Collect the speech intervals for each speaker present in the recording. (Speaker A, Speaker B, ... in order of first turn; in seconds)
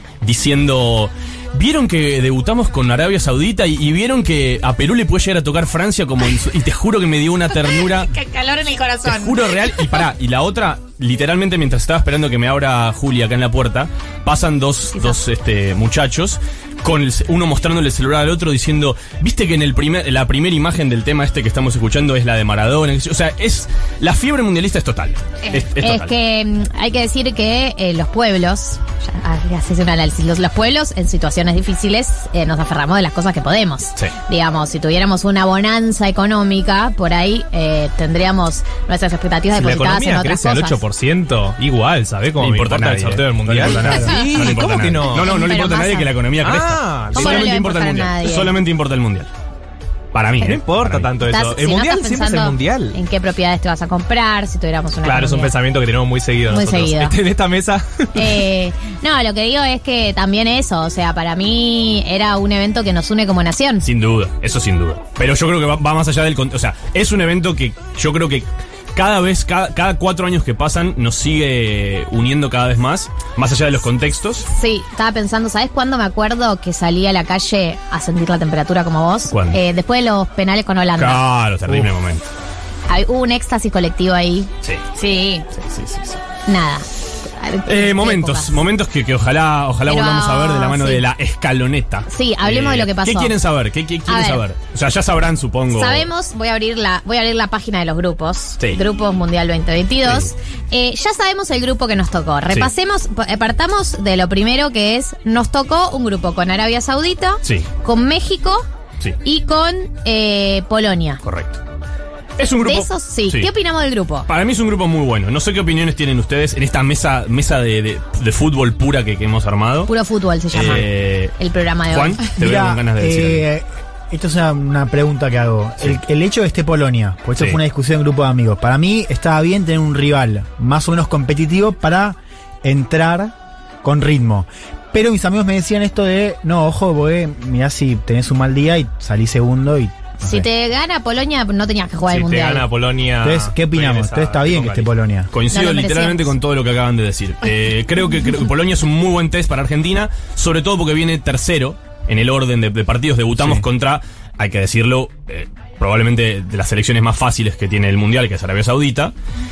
Speaker A: 0.2-8.1, 9.0-26.1, 42.4-49.3, 50.1-51.2, 63.8-74.5, 79.3-79.6, 80.9-82.3, 85.5-86.2, 87.6-96.0, 100.0-100.3, 111.2-111.6, 112.4-113.5, 114.3-119.9, 120.5-121.3, 121.9-123.5, 144.6-159.1
Speaker B: 7.6-9.8, 85.0-85.4
Speaker C: 25.8-40.8, 43.7-46.1, 47.1-48.6, 51.2-55.5, 56.5-57.2, 58.1-63.9, 74.5-81.2, 82.9-84.5, 85.1-85.4, 86.5-88.6, 89.9-91.0, 92.1-93.4, 94.0-94.5, 95.7-108.6, 109.2-111.2, 112.6-114.3, 119.8-122.2, 140.2-142.7, 145.5-146.3
Speaker D: 39.5-45.3, 46.4-47.5, 50.4-53.0, 55.0-58.4, 142.0-144.7
Speaker E: 122.3-140.5, 143.2-145.3, 153.4-153.6